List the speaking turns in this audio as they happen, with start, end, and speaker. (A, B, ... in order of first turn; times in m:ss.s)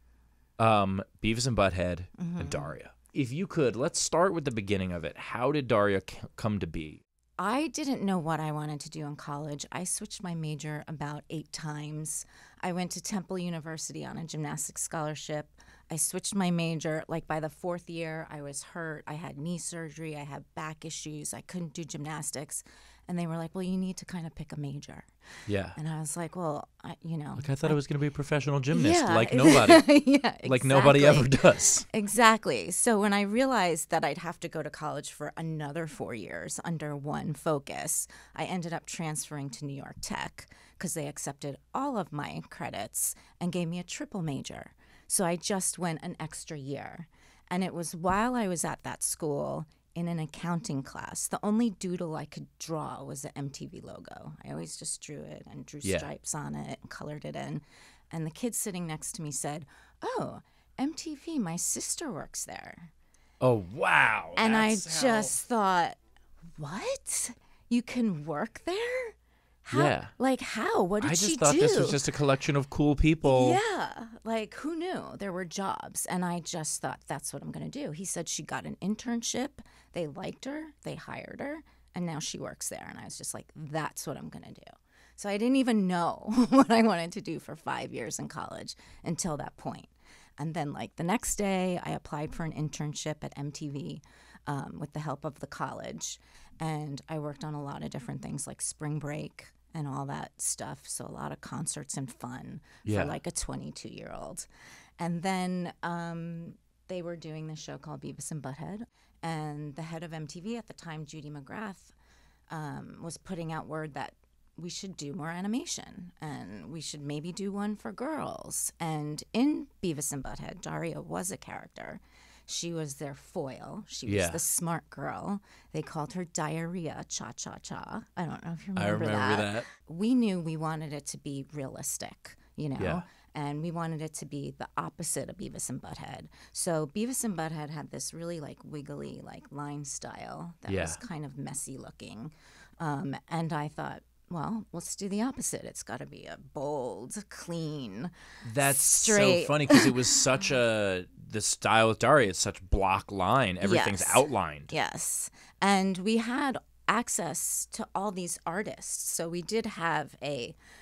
0:00.6-0:07.0 A
0:02.2-0:02.8 B
0:07.4-0:25.1 B
0:25.5-0:25.8 A
0:25.7-0:27.8 B
0:27.4-0:29.8 A
0:28.7-1:02.9 B
0:30.4-0:31.8 A
0:55.8-0:56.1 A
1:03.4-1:05.4 A
1:04.4-1:06.0 B
1:06.6-1:12.1 B
1:09.7-1:10.1 A
1:11.0-1:13.6 A
1:13.2-1:44.5 B
1:42.8-1:43.2 A
1:45.0-1:51.9 B
1:52.5-2:30.2 B
2:04.0-2:04.4 A
2:08.8-2:09.7 A
2:12.8-2:13.0 A
2:20.7-2:21.0 A
2:28.4-2:34.7 A
2:33.6-2:40.6 B